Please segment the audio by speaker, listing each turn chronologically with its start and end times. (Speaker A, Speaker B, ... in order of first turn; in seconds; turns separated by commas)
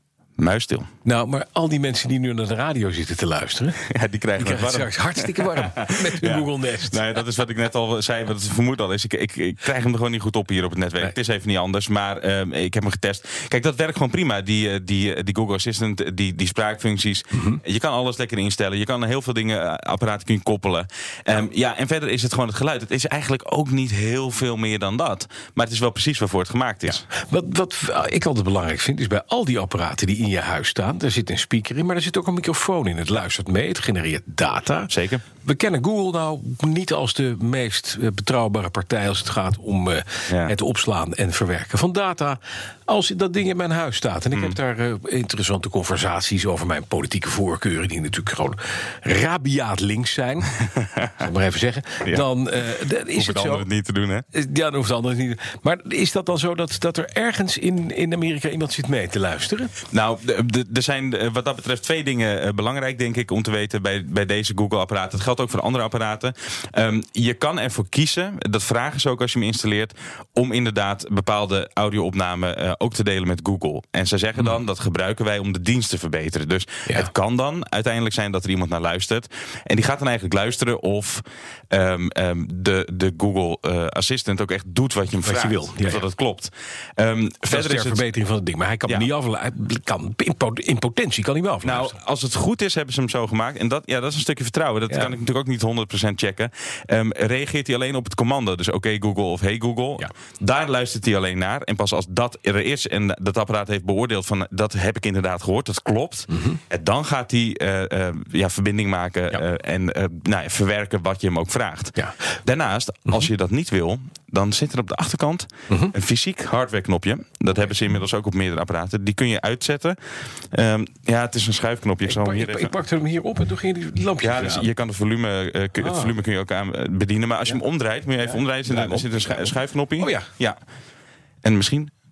Speaker A: 0.4-0.9, Speaker B: 1.0-3.8, Speaker A: 3.9-27.1, Speaker B: 4.3-7.1, Speaker B: 26.9-34.9, Speaker A: 34.9-35.2, Speaker B: 35.4-50.6, Speaker A: 40.3-40.5, Speaker A: 44.3-44.6, Speaker A: 50.8-51.2, Speaker B: 51.1-53.7, Speaker A: 53.1-54.3, Speaker B: 54.3-59.7, Speaker A: 59.9-88.0, Speaker B: 85.2-86.0, Speaker B: 87.5-92.0, Speaker A: 91.6-120.0, Speaker B: 94.9-95.1, Speaker A: 120.5-122.7, Speaker B: 122.0-124.7, Speaker A: 124.2-130.6, Speaker B: 125.8-126.1, Speaker B: 128.2-130.3, Speaker A: 131.4-131.9